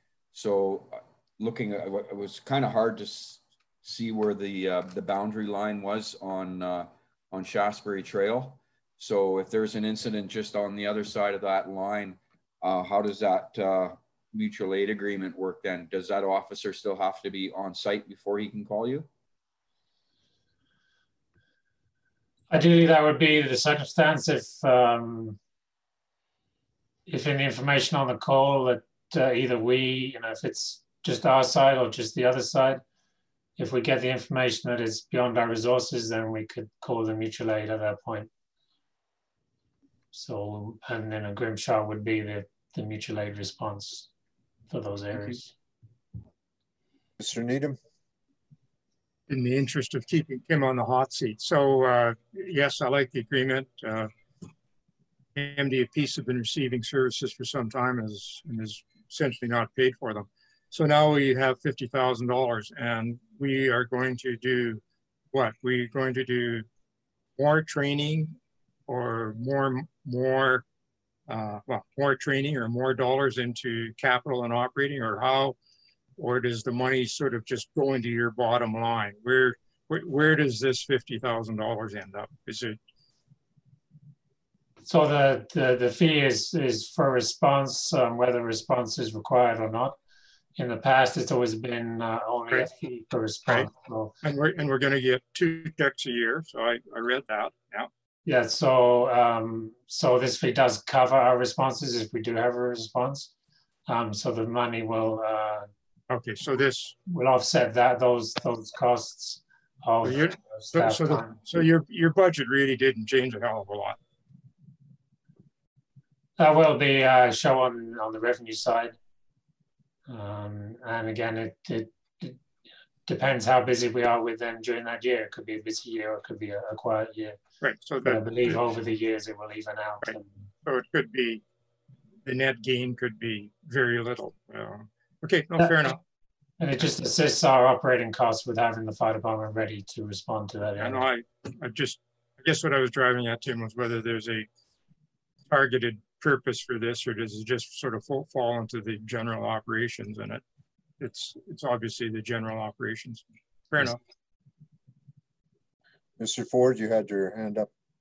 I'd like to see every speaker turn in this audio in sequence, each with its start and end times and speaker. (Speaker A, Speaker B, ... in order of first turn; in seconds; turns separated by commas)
Speaker A: 0.3-19.1, Speaker B: 22.5-25.4, Speaker B: 27.1-32.8, Speaker B: 33.6-38.3, Speaker B: 40.1-44.1, Speaker B: 44.7-45.5, Speaker C: 47.2-47.8, Speaker D: 49.3-54.1, Speaker D: 55.4-64.8, Speaker D: 65.3-66.7, Speaker D: 67.4-70.7, Speaker D: 71.3-75.6, Speaker D: 76.2-82.8, Speaker B: 84.8-90.0, Speaker B: 90.6-94.1, Speaker D: 94.2-97.9, Speaker B: 98.2-103.3, Speaker B: 103.9-105.7, Speaker D: 106.1-107.0, Speaker B: 107.0-111.7, Speaker D: 110.0-114.0, Speaker B: 116.4-119.0, Speaker B: 120.1-122.4, Speaker B: 123.1-127.4, Speaker D: 127.6-128.6, Speaker B: 128.0-130.4, Speaker D: 130.0-131.4, Speaker D: 132.2-136.0, Speaker B: 136.6-141.1, Speaker D: 140.8-144.5, Speaker D: 145.5-150.4, Speaker D: 151.0-154.0, Speaker C: 156.2-157.7